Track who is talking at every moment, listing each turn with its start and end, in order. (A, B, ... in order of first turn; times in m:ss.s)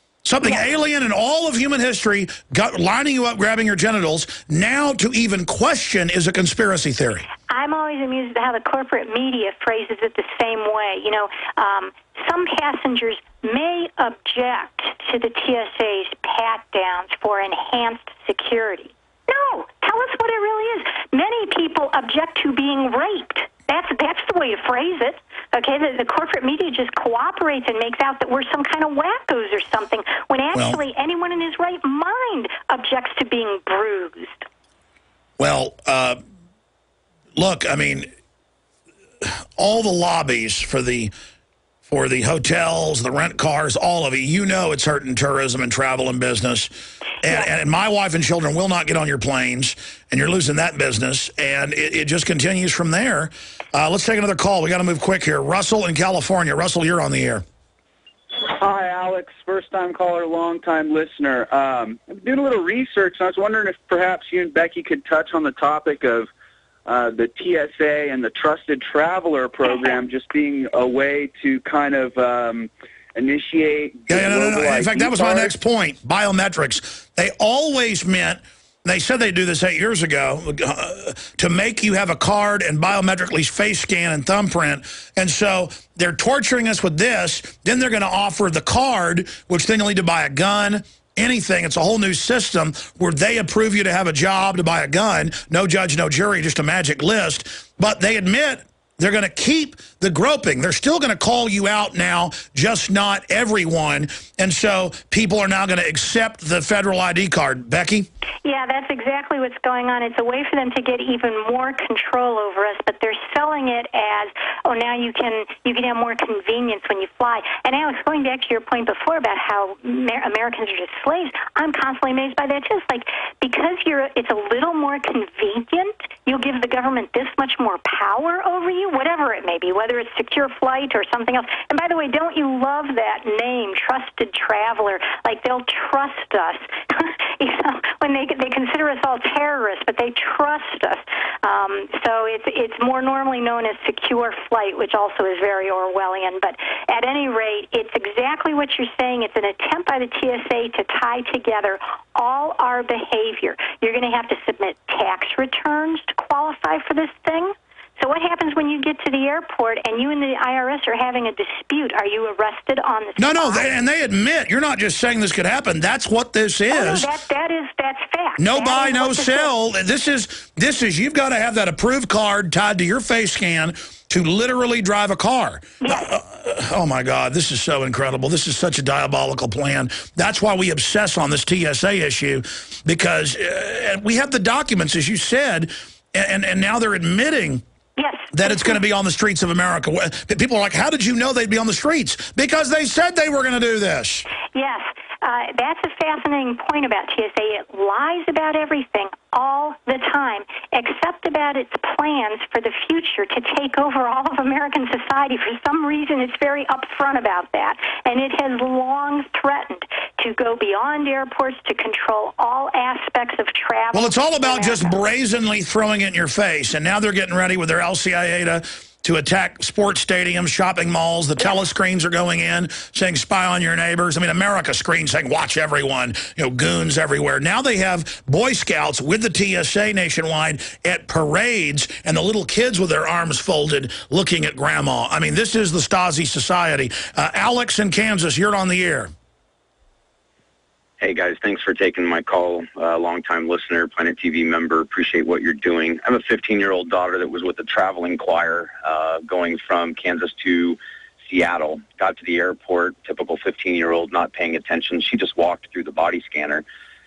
0:00.2-0:07.3 A
0:07.5-0:34.5 B
0:30.5-0:30.8 A
0:35.4-0:36.2 A
0:37.4-0:38.1 A
0:39.2-0:41.1 A
0:41.9-0:57.4 A
0:58.6-1:06.3 C
1:06.9-1:15.5 C
1:14.1-1:48.1 A
1:48.4-2:43.7 B
2:43.2-2:47.1 A
2:46.7-2:49.5 B
2:48.4-3:07.6 A
2:55.8-2:56.1 B
3:08.0-3:08.8 B
3:08.3-3:14.3 A
3:14.5-3:34.9 B
3:33.9-3:59.1 A
4:01.0-4:16.6 D